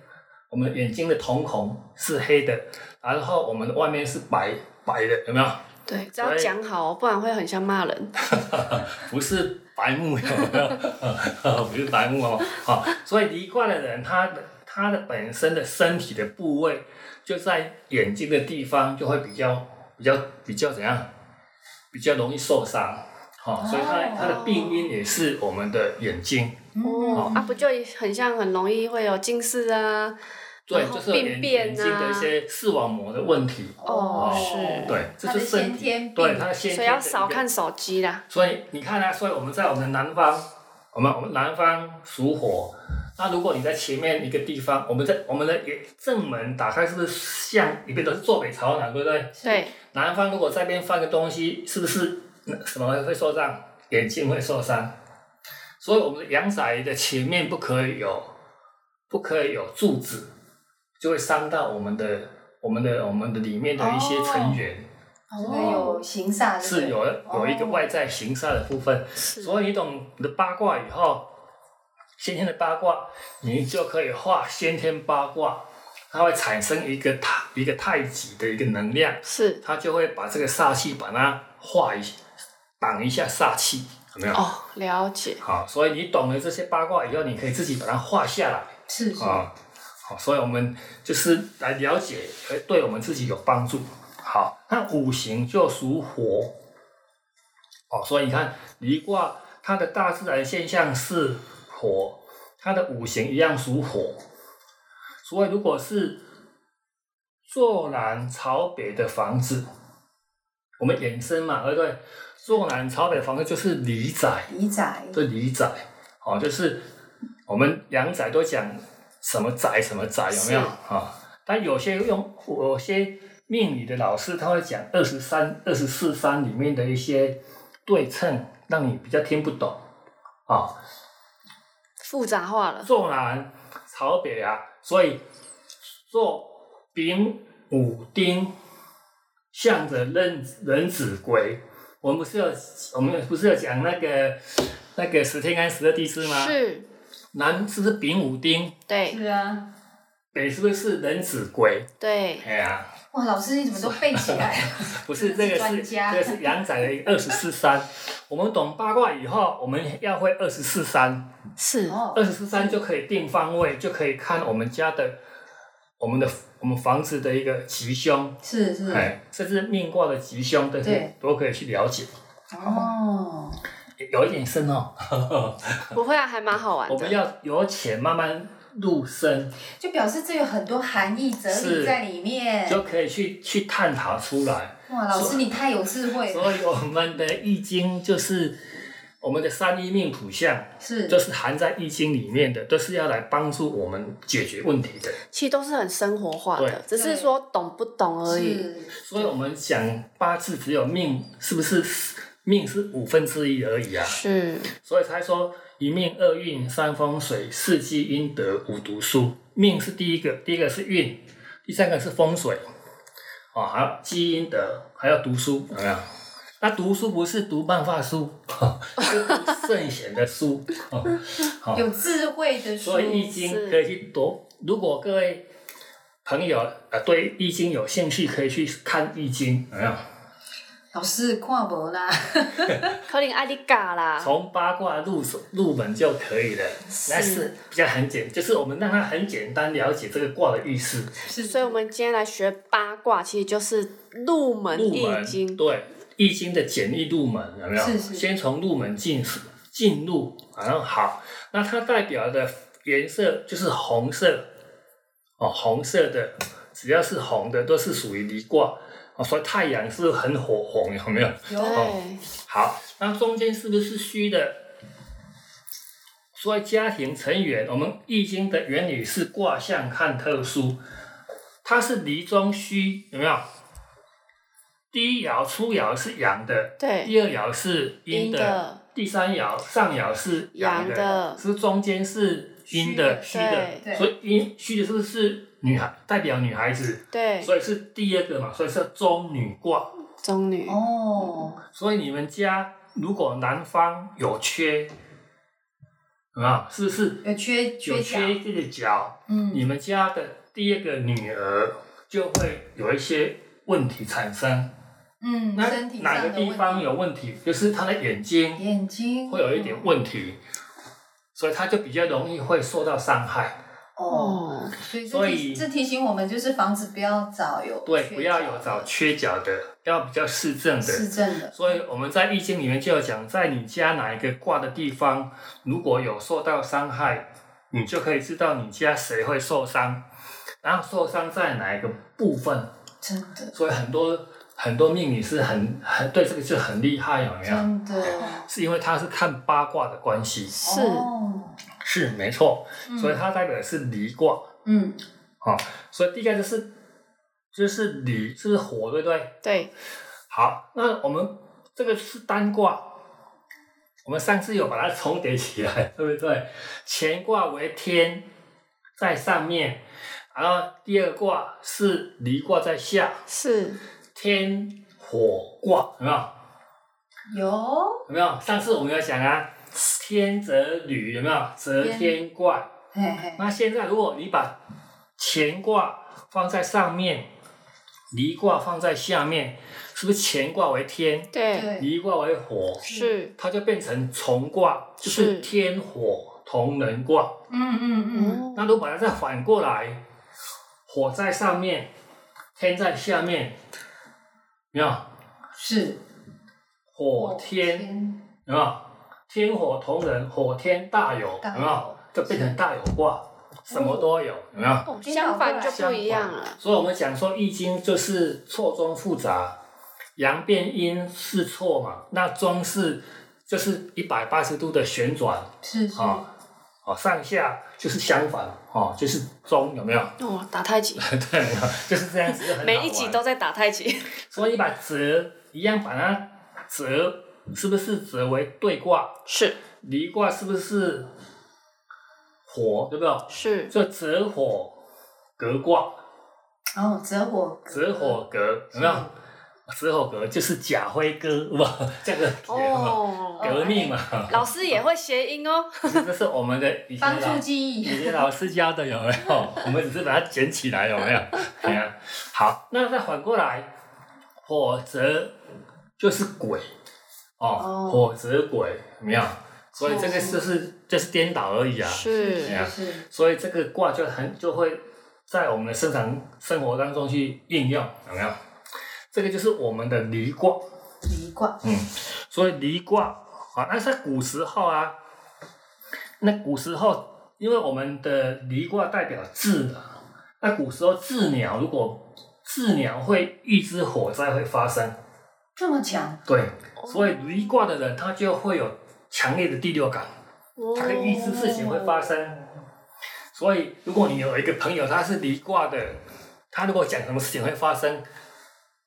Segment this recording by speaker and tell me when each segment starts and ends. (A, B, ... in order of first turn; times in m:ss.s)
0:00.5-0:05.7 A
0:05.9-0:08.1 B
0:06.2-0:06.5 A
0:08.2-0:21.1 A
0:21.9-0:27.4 A
0:23.6-0:24.5 C
0:24.1-0:24.8 B
0:26.8-0:27.6 C
0:26.8-0:30.2 B
0:30.7-0:37.4 A
0:30.7-0:32.3 B
0:33.8-0:36.5 C
0:33.9-0:35.0 B
0:36.7-0:38.2 B
0:38.3-0:49.4 A
0:49.4-0:49.7 C
0:49.4-0:49.7 B
0:49.9-0:55.0 A
0:55.8-0:58.3 A
0:59.1-1:00.3 A
1:01.0-1:04.8 A
1:03.8-1:04.6 B
1:05.3-1:06.0 B
1:05.4-1:07.9 C
1:05.4-1:05.9 A
1:06.6-1:11.3 A
1:09.2-1:09.5 B
1:12.2-1:22.2 A
1:19.3-1:19.6 B
1:22.8-1:24.5 A
1:24.3-1:25.4 B
1:25.4-1:29.5 A
1:28.9-1:29.4 C
1:30.1-1:36.6 A
1:37.9-1:44.2 A
1:45.2-1:46.2 A
1:47.5-1:49.7 A
1:50.8-1:54.5 A
1:54.5-1:55.2 C
1:55.1-1:56.9 A
1:57.5-2:09.8 A
2:00.3-2:00.7 B
2:10.5-2:10.8 A
2:12.0-2:12.9 B
2:12.8-2:15.2 A
2:16.1-2:18.5 A
2:19.5-2:26.6 A
2:26.2-2:26.9 B
2:27.3-2:28.8 A
2:28.9-2:29.2 B
2:29.1-2:29.7 C
2:30.3-2:31.9 A
2:32.0-2:32.5 B
2:32.4-2:32.9 A
2:33.1-2:36.5 C
2:33.8-2:41.3 A
2:41.6-2:42.0 B
2:41.9-2:42.8 C
2:42.1-2:45.2 A
2:46.0-2:52.1 A
2:48.4-2:49.1 C
2:50.8-2:51.1 C
2:52.5-2:53.6 C
2:54.0-2:56.0 A
2:55.9-2:57.2 B
2:56.9-2:59.6 A
2:59.8-3:02.9 C
3:01.5-3:02.0 A
3:02.7-3:05.5 A
3:04.9-3:06.6 C
3:06.3-3:08.6 A
3:09.2-3:15.2 A
3:10.8-3:11.2 C
3:15.3-3:18.7 B
3:16.6-3:16.8 A
3:16.9-3:17.3 C
3:18.3-3:19.3 C
3:19.0-3:24.2 A
3:24.0-3:24.7 B
3:24.8-3:32.6 A
3:33.5-3:36.1 A
3:36.6-3:41.9 A
3:41.7-3:43.4 C
3:42.8-3:45.5 A
3:43.0-3:43.8 B
3:46.2-3:50.0 A
3:50.9-3:53.0 C
3:53.1-3:54.3 B
3:54.2-4:01.2 A
3:57.0-3:57.5 B
4:01.2-4:01.8 C
4:01.4-4:05.6 B
4:04.7-4:14.5 A
4:07.8-4:08.3 C
4:15.4-4:24.7 A
4:21.5-4:21.9 C
4:21.6-4:22.2 B
4:26.4-4:30.8 A
4:31.6-4:33.5 A
4:34.9-4:49.9 A
4:36.8-4:37.1 B
4:38.1-4:38.8 B
4:40.6-4:41.4 B
4:42.7-4:43.3 C
4:43.3-4:43.8 B
4:43.8-4:44.1 C
4:47.1-4:47.5 B
4:50.2-4:50.8 B
4:50.7-4:51.6 C
4:51.7-4:54.9 A
4:56.4-4:57.3 A
4:57.2-4:58.4 C
4:57.8-5:04.7 A
4:59.3-4:59.6 C
5:05.2-5:06.9 C
5:05.6-5:08.6 A
5:08.6-5:09.9 C
5:09.3-5:10.4 A
5:11.4-5:13.6 A
5:14.0-5:18.9 C
5:14.1-5:14.7 B
5:15.1-5:15.7 A
5:17.9-5:30.0 A
5:20.8-5:21.7 C
5:30.6-5:32.7 A
5:33.0-5:33.5 C
5:33.5-5:40.6 A
5:37.4-5:38.5 C
5:40.5-5:41.1 B
5:40.6-5:41.6 C
5:41.8-5:44.5 A
5:42.9-5:43.2 C
5:44.6-5:45.0 C
5:45.4-5:46.7 A
5:47.5-5:49.4 A
5:49.4-5:49.7 B
5:50.3-5:53.0 A
5:54.0-5:58.3 A
5:59.0-6:03.2 A
6:03.3-6:03.8 B
6:04.2-6:06.3 A
6:07.3-6:08.0 C
6:08.1-6:12.7 A
6:11.8-6:12.2 C
6:12.9-6:13.4 C
6:13.4-6:14.6 A
6:15.2-6:17.3 A
6:18.1-6:27.4 A
6:21.3-6:21.7 B
6:21.5-6:21.9 C
6:22.8-6:23.2 C
6:22.8-6:23.3 B
6:25.0-6:25.5 B
6:27.5-6:28.4 C
6:28.1-6:28.7 B
6:28.6-6:30.0 A
6:30.9-6:31.9 A
6:32.6-6:33.6 A
6:34.7-6:35.1 A
6:35.6-6:36.0 C
6:36.9-6:37.9 A
6:37.2-6:38.2 C
6:38.5-6:44.9 A
6:41.4-6:42.6 C
6:43.7-6:44.1 C
6:44.9-6:46.6 B
6:45.0-6:46.2 C
6:45.7-6:49.6 A
6:50.2-6:56.3 A
6:55.6-6:56.3 C
6:56.8-7:00.2 A
7:00.2-7:01.0 B
7:01.0-7:03.2 A
7:02.3-7:04.2 B
7:04.3-7:09.2 A
7:09.3-7:09.6 B
7:09.8-7:11.1 A
7:12.5-7:14.8 A
7:13.3-7:13.7 B
7:15.4-7:16.0 A
7:16.8-7:18.2 C
7:17.7-7:19.1 A
7:18.7-7:19.1 C
7:19.7-7:24.5 A
7:22.5-7:26.1 B
7:23.4-7:24.0 C
7:25.8-7:33.7 A
7:27.0-7:28.2 C
7:34.4-7:35.4 A
7:36.0-7:36.7 A
7:37.4-7:48.4 A
7:37.6-7:38.0 B
7:39.8-7:40.4 B
7:41.8-7:42.6 B
7:42.1-7:43.0 C
7:49.1-7:50.6 A
7:51.0-7:51.6 C
7:51.6-7:55.0 A
7:56.2-8:05.0 A
8:05.6-8:06.2 C
8:06.3-8:10.1 A
8:06.8-8:07.3 B
8:10.6-8:11.7 B
8:10.8-8:12.4 A
8:10.8-8:12.1 C
8:13.3-8:16.0 A
8:16.5-8:18.0 A